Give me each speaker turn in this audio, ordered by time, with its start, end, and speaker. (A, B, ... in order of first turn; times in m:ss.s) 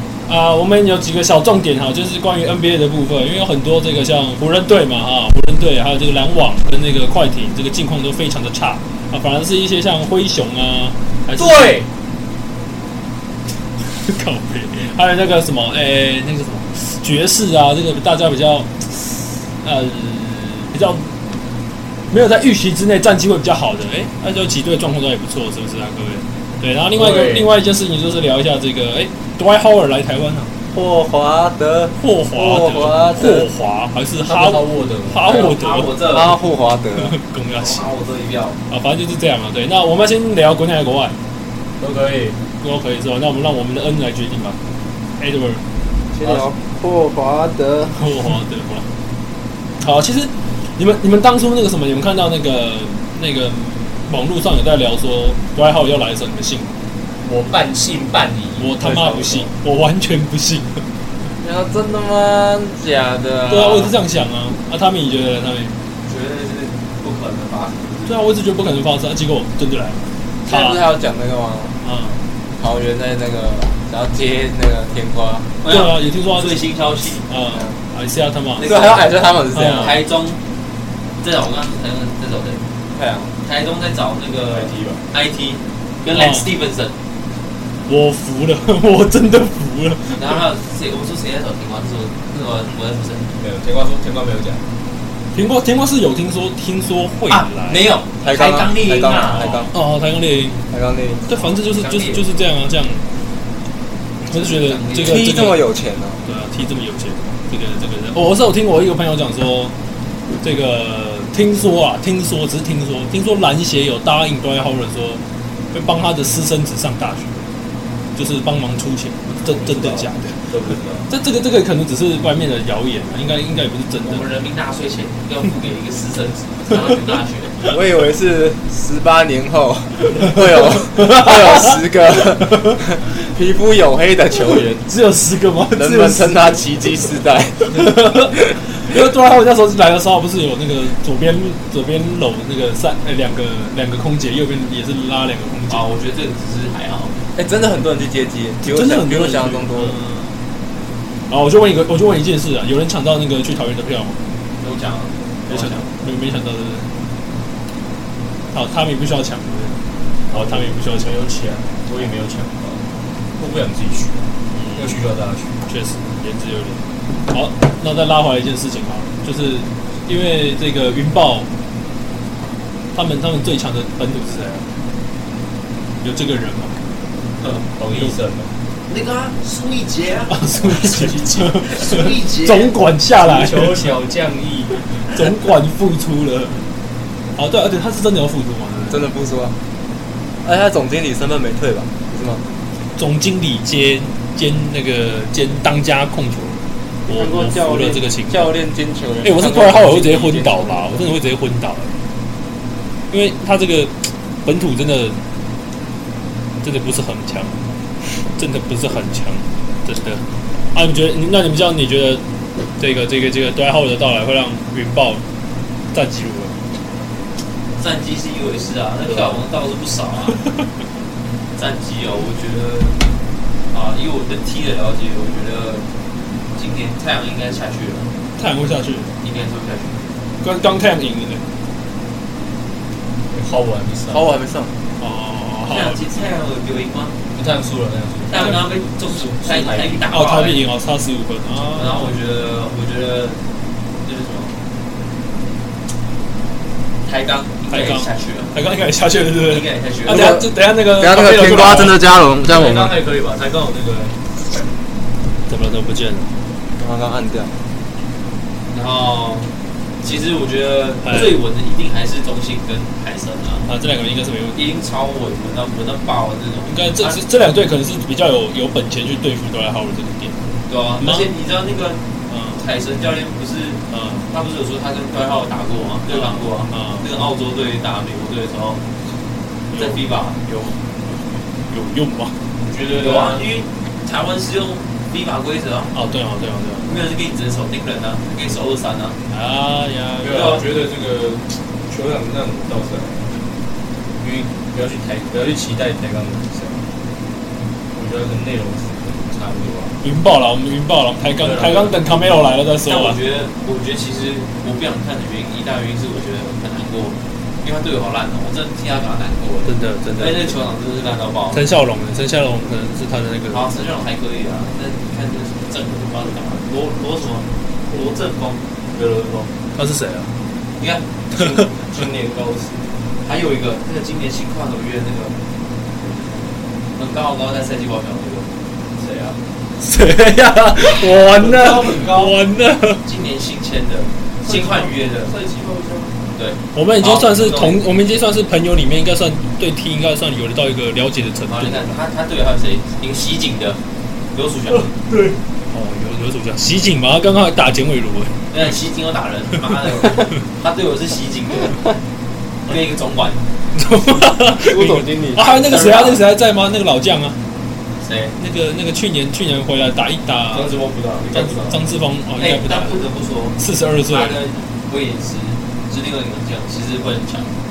0:00.2-0:11.8 A
0:11.4-0:11.9 B
0:13.9-0:21.1 A
0:22.1-0:30.5 A
0:27.0-0:27.5 B
0:30.7-0:33.5 C
0:32.0-0:35.9 A
0:34.2-0:35.4 B
0:35.2-0:36.3 D
0:36.1-0:37.2 C
0:37.0-0:37.9 A
0:37.5-0:38.6 D
0:38.7-0:41.2 A
0:41.8-0:42.4 B
0:42.6-0:44.6 A
0:45.2-0:45.6 A
0:46.1-0:48.0 C
0:46.2-0:46.5 B
0:47.9-0:48.9 A
0:49.8-0:56.8 A
0:57.2-0:58.8 B
0:58.6-1:00.8 A
0:58.8-0:59.5 C
1:01.4-1:03.9 C
1:03.5-1:05.8 A
1:06.1-1:08.2 D
1:08.1-1:10.8 A
1:10.4-1:11.8 C
1:11.8-1:12.2 A
1:12.6-1:15.5 C
1:15.6-1:17.3 D
1:15.7-1:18.7 A
1:18.6-1:19.1 D
1:18.6-1:20.0 C
1:19.5-1:20.0 A
1:19.7-1:20.4 D
1:21.2-1:22.6 D
1:22.9-1:23.3 C
1:23.4-1:27.0 D
1:24.5-1:25.0 B
1:26.1-1:26.5 A
1:27.9-1:30.4 A
1:30.2-1:33.3 D
1:33.3-1:34.6 B
1:35.3-1:37.9 A
1:37.3-1:39.7 D
1:38.2-1:39.7 C
1:39.7-1:40.6 A
1:40.7-1:41.2 C
1:41.3-1:43.0 A
1:41.3-1:42.3 D
1:44.2-1:45.7 A
1:44.3-1:45.4 D
1:45.0-1:46.2 C
1:46.2-1:49.7 A
1:50.4-1:57.4 A
1:58.2-2:00.5 A
1:59.4-2:01.1 B
2:01.1-2:04.2 A
2:04.0-2:07.6 D
2:07.7-2:14.8 C
2:11.0-2:11.8 A
2:12.4-2:12.7 A
2:14.9-2:16.6 A
2:15.8-2:17.8 C
2:17.7-2:25.9 A
2:25.7-2:27.1 D
2:27.4-2:30.0 C
2:28.6-2:30.4 A
2:31.3-2:34.2 A
2:34.6-2:35.9 D
2:35.5-2:36.9 A
2:38.5-2:39.8 A
2:40.3-2:42.8 B
2:40.3-2:41.2 A
2:43.4-2:45.6 B
2:44.5-2:45.0 A
2:45.7-2:51.5 A
2:52.9-2:54.7 A
2:56.0-2:56.8 A
2:57.4-2:58.5 B
2:58.9-3:00.7 D
3:00.3-3:03.9 A
3:00.5-3:02.0 B
3:01.7-3:02.7 D
3:03.2-3:04.8 B
3:05.1-3:06.6 A
3:07.4-3:09.0 A
3:08.9-3:09.6 C
3:10.4-3:12.4 C
3:13.0-3:18.6 A
3:17.1-3:21.1 C
3:19.2-3:22.0 A
3:23.1-3:25.2 A
3:26.6-3:32.2 A
3:32.8-3:35.2 A
3:35.9-3:36.6 A
3:37.8-3:40.4 D
3:39.1-3:39.4 A
3:41.6-3:43.0 D
3:43.7-3:45.8 D
3:46.6-3:48.1 D
3:48.4-3:49.1 A
3:49.2-3:50.0 D
3:50.4-3:51.4 A
3:53.3-3:54.3 B
3:54.1-3:54.7 C
3:55.0-3:56.0 A
3:55.7-3:57.2 D
3:57.3-4:00.1 B
3:58.3-4:00.6 D
4:00.1-4:02.1 A
4:01.7-4:03.4 D
4:04.0-4:04.6 D
4:07.0-4:08.6 D
4:07.7-4:12.0 A
4:09.5-4:10.3 D
4:10.1-4:13.0 C
4:12.5-4:14.2 B
4:15.5-4:16.3 A
4:16.8-4:17.5 C
4:18.7-4:23.7 D
4:21.0-4:21.4 A
4:23.7-4:24.7 A
4:24.6-4:27.2 D
4:26.7-4:30.4 A
4:30.7-4:32.0 D
4:31.0-4:31.3 A
4:32.3-4:32.6 A
4:32.6-4:38.8 D
4:33.9-4:34.3 A
4:36.1-4:37.1 A
4:39.7-4:42.4 A
4:39.8-4:40.4 D
4:42.6-4:43.5 B
4:43.0-4:45.9 D
4:45.9-4:47.1 A
4:46.8-4:49.2 D
4:49.3-4:50.6 A
4:50.2-4:53.3 B
4:50.3-4:50.6 D
4:54.2-4:56.8 B
4:57.9-5:00.0 B
5:00.0-5:03.2 A
5:01.4-5:02.1 B
5:02.9-5:11.6 D
5:09.6-5:10.6 A
5:11.5-5:13.8 A
5:13.5-5:18.6 D
5:18.9-5:19.5 B
5:19.7-5:20.4 A
5:20.8-5:21.0 D
5:21.3-5:22.9 B
5:21.3-5:21.8 A
5:23.2-5:25.4 D
5:27.0-5:28.5 D
5:29.0-5:29.4 B
5:29.8-5:33.0 A
5:31.3-5:32.4 B
5:33.0-5:35.3 D
5:34.4-5:36.2 B
5:36.4-5:37.8 D
5:36.7-5:42.0 A
5:41.5-5:43.8 D
5:44.3-5:44.9 D
5:45.1-5:45.4 B
5:45.7-5:48.4 A
5:48.5-5:51.8 D
5:52.7-5:53.4 D
5:53.7-5:57.4 A
5:54.6-5:55.6 C
5:55.4-5:56.2 D
5:58.0-5:58.4 D
5:58.4-6:00.7 A
6:00.5-6:01.8 B
6:01.3-6:03.0 A
6:02.4-6:03.6 D
6:03.6-6:04.4 A
6:04.1-6:07.6 D